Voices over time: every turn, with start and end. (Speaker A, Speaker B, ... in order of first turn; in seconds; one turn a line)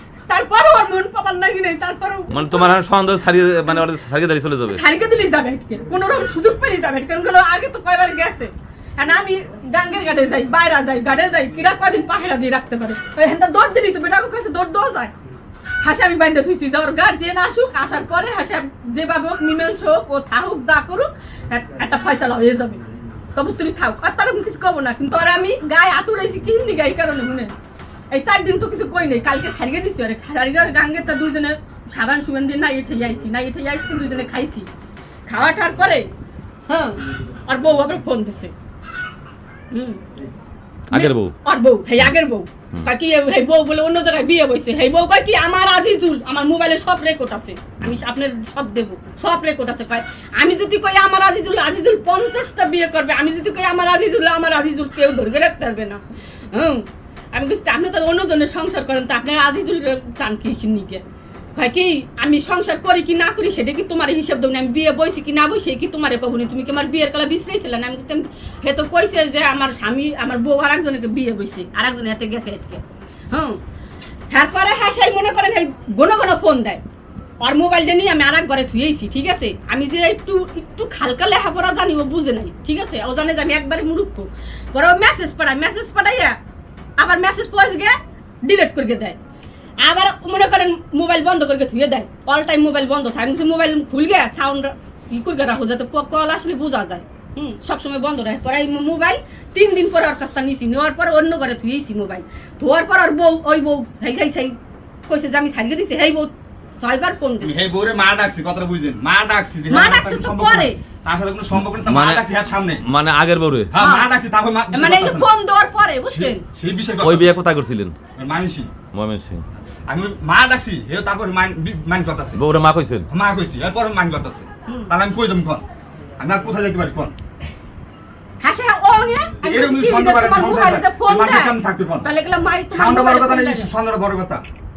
Speaker A: 0.3-2.7
Speaker B: 2.3-4.8
Speaker A: 4.7-15.1
Speaker A: 15.8-22.8
Speaker A: 23.3-27.5
Speaker A: 28.1-34.7
Speaker A: 35.3-36.1
Speaker A: 36.7-38.5
Speaker A: 39.7-40.0
Speaker B: 40.9-41.3
Speaker A: 40.9-61.0
Speaker A: 61.5-73.6
Speaker A: 74.3-76.8
Speaker A: 77.4-86.4
Speaker A: 87.0-89.2
Speaker A: 89.8-104.5
Speaker A: 105.1-107.6
Speaker C: 107.4-112.8
Speaker A: 109.7-110.8
Speaker B: 111.8-112.2
Speaker B: 112.8-113.7
Speaker C: 113.7-115.3
Speaker A: 113.8-114.1
Speaker A: 114.7-116.4
Speaker C: 116.1-117.3
Speaker B: 117.0-117.9
Speaker C: 118.2-118.7
Speaker B: 118.9-119.4
Speaker C: 119.9-122.4
Speaker B: 122.3-123.1
Speaker C: 123.1-125.6
Speaker A: 124.7-124.9
Speaker C: 126.2-127.1
Speaker A: 128.4-133.7
Speaker C: 129.4-132.1
Speaker C: 132.7-134.4